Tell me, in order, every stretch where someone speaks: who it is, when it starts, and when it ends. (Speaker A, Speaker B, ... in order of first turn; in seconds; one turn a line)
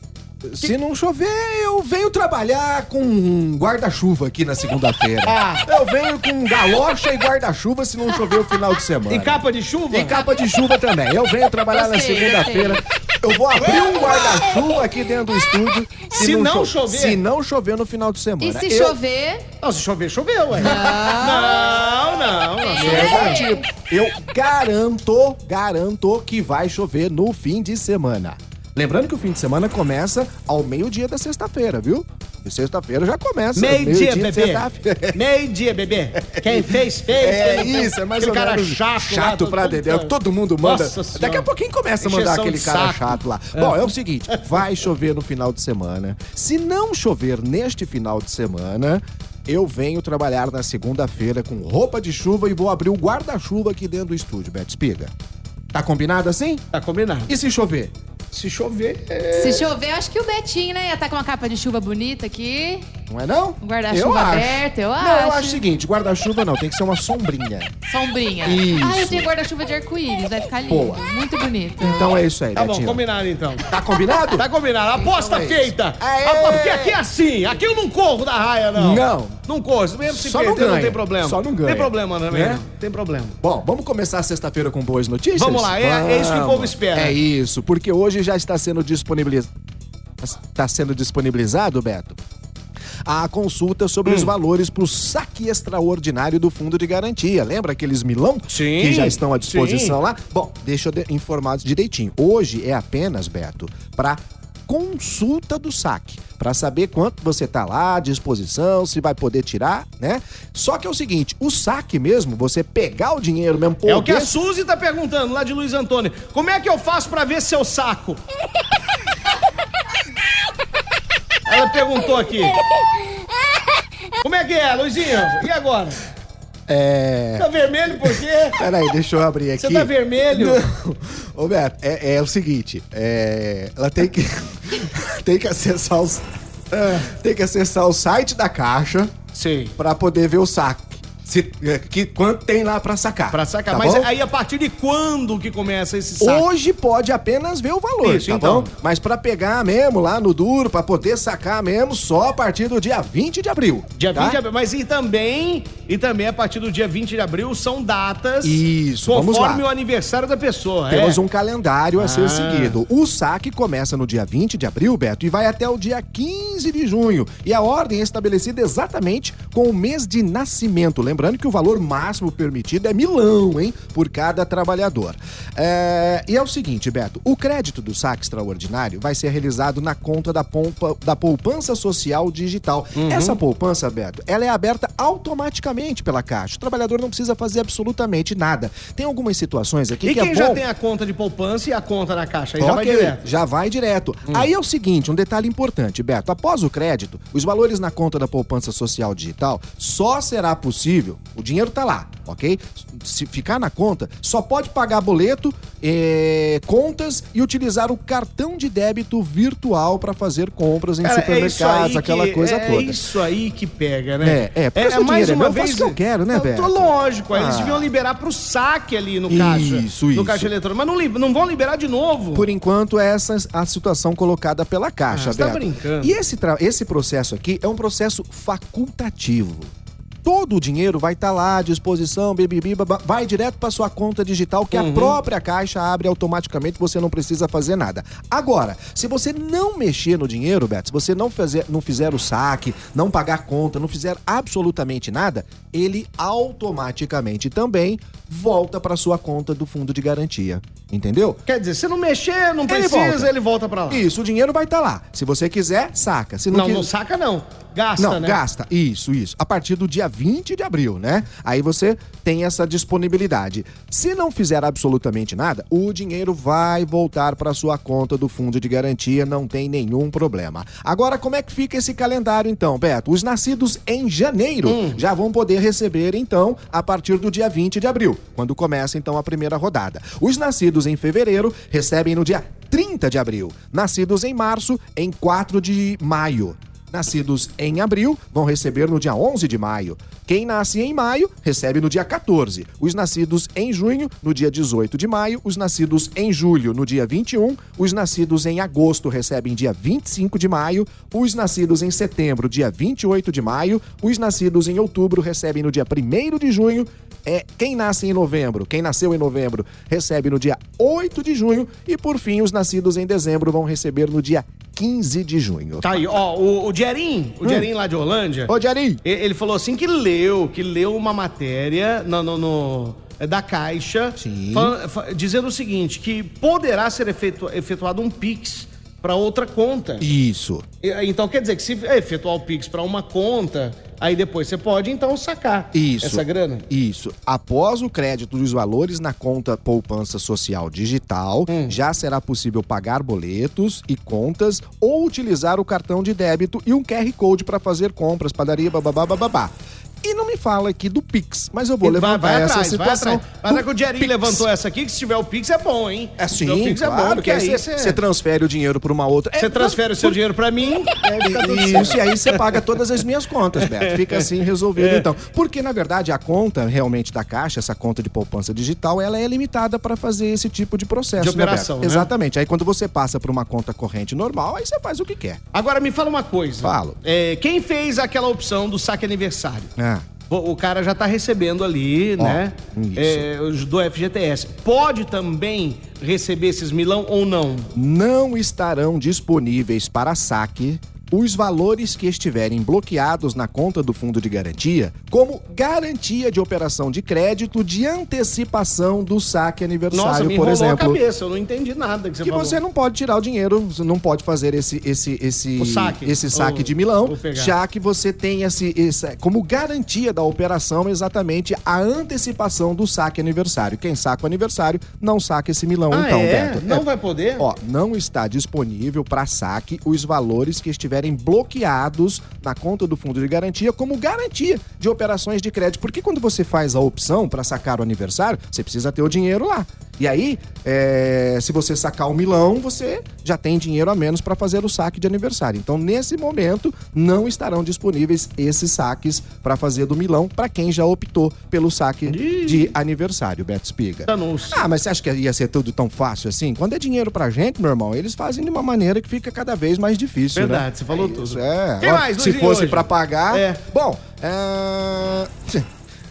Speaker A: 0.4-19.0
Speaker B: 5.2-5.7
Speaker B: 9.1-10.2
Speaker C: 11.7-12.8
Speaker B: 16.1-17.2
Speaker C: 18.4-19.4
Speaker B: 19.6-23.4
Speaker C: 20.6-21.9
Speaker C: 22.6-23.6
Speaker A: 22.8-35.2
Speaker B: 33.5-41.5
Speaker A: 36.3-55.1
Speaker B: 42.0-44.4
Speaker A: 55.7-56.6
Speaker B: 56.7-57.3
Speaker A: 57.3-57.9
Speaker B: 58.3-59.7
Speaker C: 59.3-62.9
Speaker A: 63.1-67.7
Speaker C: 63.6-65.6
Speaker C: 67.8-72.1
Speaker A: 68.4-69.3
Speaker A: 70.7-71.0
Speaker A: 71.8-73.0
Speaker B: 72.5-73.7
Speaker A: 73.7-74.4
Speaker B: 74.3-83.3
Speaker A: 75.0-77.0
Speaker A: 78.7-79.4
Speaker A: 80.0-82.6
Speaker A: 83.4-89.5
Speaker B: 85.3-87.2
Speaker A: 90.2-92.2
Speaker A: 93.0-114.4
Speaker B: 94.0-94.3
Speaker B: 98.5-100.0
Speaker B: 113.8-118.2
Speaker B: 121.5-122.6
Speaker B: 124.2-126.0
Speaker A: 126.7-127.5
Speaker B: 127.3-128.6
Speaker A: 128.6-139.1
Speaker B: 129.6-130.6
Speaker B: 139.3-139.7
Speaker A: 139.8-144.1
Speaker B: 143.3-146.4
Speaker A: 146.2-154.4
Speaker B: 148.0-148.7
Speaker B: 153.9-161.2
Speaker A: 158.4-159.6
Speaker A: 160.9-190.6
Speaker B: 161.9-162.8
Speaker B: 182.9-183.4
Speaker B: 190.0-193.3
Speaker A: 192.6-213.0
Speaker B: 211.0-222.5
Speaker A: 214.2-217.9
Speaker A: 219.3-220.5
Speaker A: 222.3-229.7
Speaker B: 225.1-226.2
Speaker A: 230.2-251.4
Speaker B: 234.7-235.2
Speaker B: 251.4-254.1
Speaker A: 252.7-253.3
Speaker A: 253.9-256.9
Speaker B: 256.5-258.4
Speaker A: 258.0-316.0
Speaker B: 274.6-275.0
Speaker B: 315.8-330.1
Speaker A: 318.5-319.0
Speaker A: 324.1-324.8
Speaker A: 330.0-330.6
Speaker B: 330.8-336.7
Speaker A: 335.7-354.5
Speaker B: 341.5-341.8
Speaker B: 351.8-358.0
Speaker A: 356.2-360.2
Speaker B: 359.4-362.6
Speaker A: 361.0-375.4
Speaker B: 363.6-365.1
Speaker B: 371.2-372.1
Speaker B: 375.5-379.7
Speaker A: 376.6-377.0
Speaker A: 379.8-380.1
Speaker B: 380.3-387.7
Speaker A: 382.2-383.2
Speaker A: 387.7-401.0
Speaker B: 399.9-402.6
Speaker A: 402.2-416.9
Speaker B: 405.6-407.6
Speaker B: 415.9-417.5
Speaker A: 417.4-455.6
Speaker B: 442.1-442.7
Speaker B: 444.1-444.7
Speaker B: 450.3-453.6